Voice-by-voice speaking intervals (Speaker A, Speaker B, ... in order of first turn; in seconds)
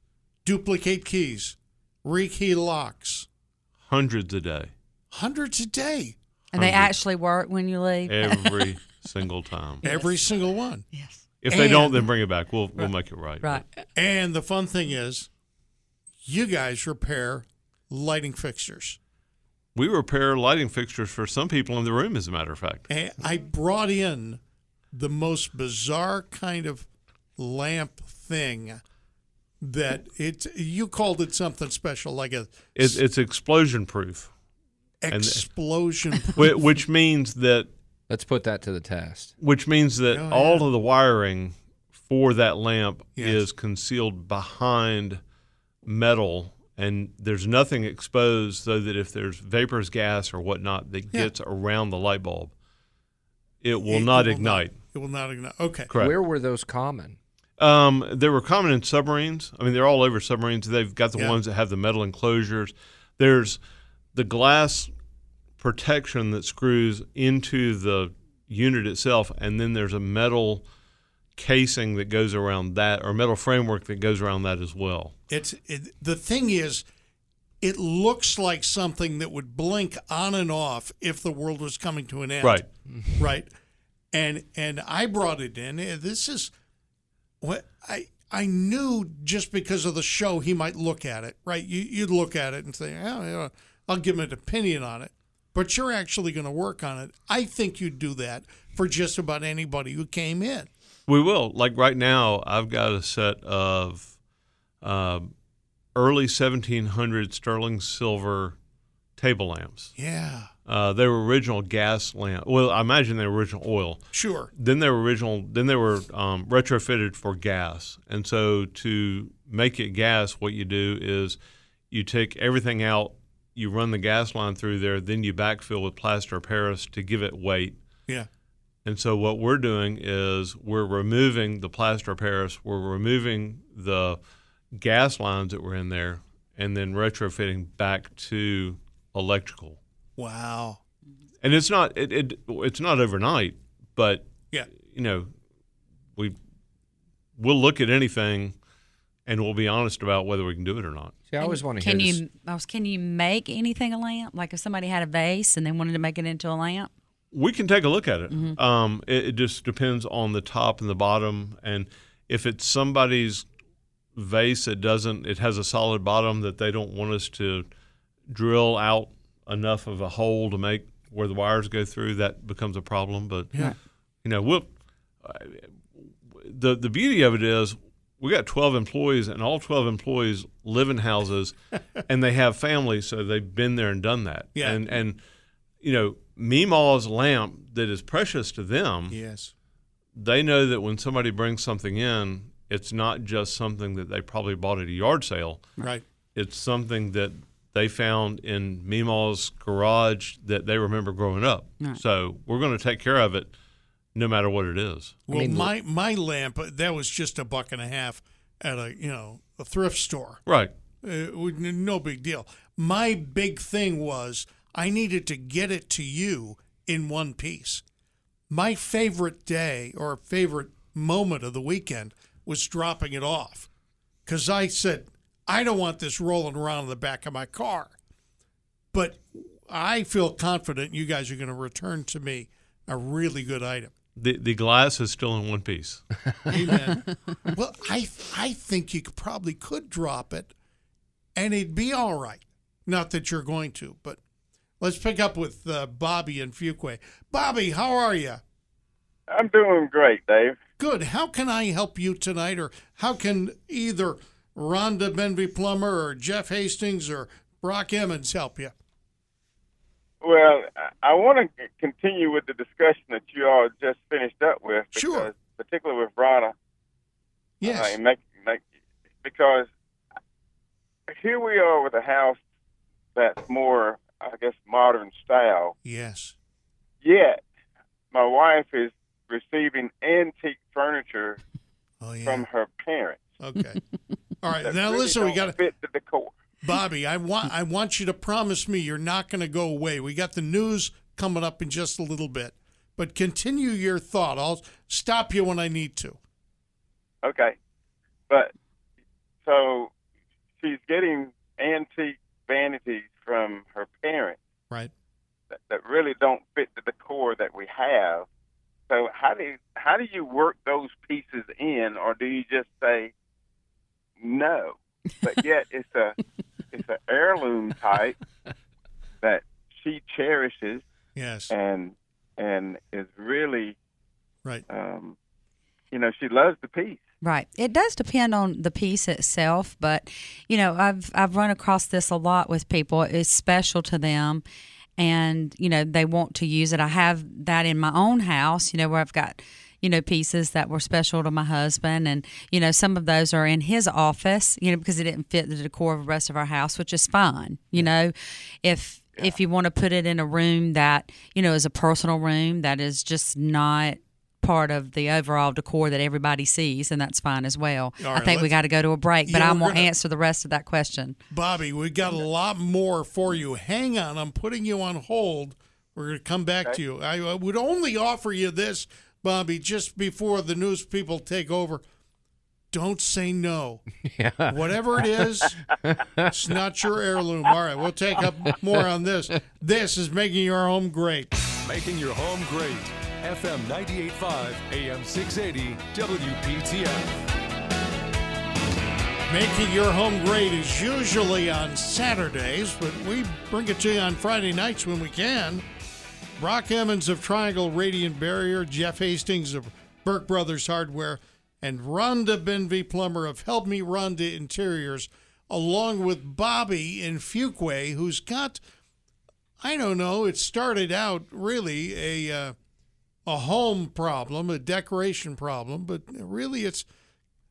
Speaker A: 0.5-3.3, 5.1-6.2, 9.8-10.8, 11.5-12.1, 13.9-15.3, 16.2-19.0, 22.9-24.4, 24.9-28.8, 29.6-33.0, 35.0-36.6, 40.1-40.7, 53.9-55.9, 75.3-76.8, 77.6-82.7, 83.2-83.5, 84.1-86.5, 87.4-100.7, 110.0-110.5, 114.1-114.5, 140.2-140.8, 184.6-184.8, 189.1-189.5, 205.3-210.4, 211.0-217.8, 218.5-223.7, 224.3-227.9, 228.9-233.9, 236.5-240.5, 241.4-244.2, 244.8-248.4, 250.8-258.7, 264.9-265.3, 267.6-268.0, 275.8-276.3, 282.0-282.5, 283.4-283.8, 284.4-285.6, 286.6-296.2, 321.2-321.5, 358.0-358.5, 359.3-359.9, 361.3-371.8, 372.7-373.8, 374.5-375.6, 376.3-381.4, 389.3-395.6, 396.4-408.6, 409.6-412.5, 413.3-416.9
Speaker B: 3.9-4.7, 6.5-6.9, 8.1-9.9, 11.4-13.6, 19.8-22.9, 32.8-34.3, 35.1-35.5, 36.4-37.7, 39.4-45.2, 45.9-52.5, 53.6-54.8, 55.9-56.1, 57.6-63.6, 64.2-64.9, 65.6-70.7, 71.4-75.2, 101.1-104.1, 104.8-105.3, 106.0-108.6, 109.2-110.0, 110.7-114.0, 114.6-121.4, 121.9-127.8, 128.8-134.2, 134.7-139.8, 141.4-145.3, 147.4-148.6, 149.3-151.2, 157.3-163.5, 164.2-167.7, 168.3-173.7, 174.2-174.7, 175.2-185.2, 185.8-189.2, 190.2-195.7, 196.3-203.5, 204.2-205.2, 210.5-210.7, 234.2-236.0
Speaker C: 6.5-8.6, 9.8-10.2, 10.9-11.2, 151.4-156.9, 158.3-158.6, 327.2-334.4, 335.0-361.2
Speaker D: 38.1-39.3, 56.0-57.2, 151.3-152.2, 205.3-205.7, 374.0-376.5, 378.2-378.9
Speaker E: 249.3-250.6, 260.2-266.5, 267.6-268.6, 269.2-269.7, 271.1-272.4, 273.1-275.8, 277.0-277.4, 278.1-281.4, 282.2-283.4, 284.6-286.4, 297.2-297.6, 299.4-299.9, 300.6-304.4, 305.7-308.3, 308.9-313.1, 314.2-316.2, 316.7-318.2, 319.2-320.8, 321.5-323.8, 324.7-325.2, 325.9-327.0
Speaker F: 381.6-387.1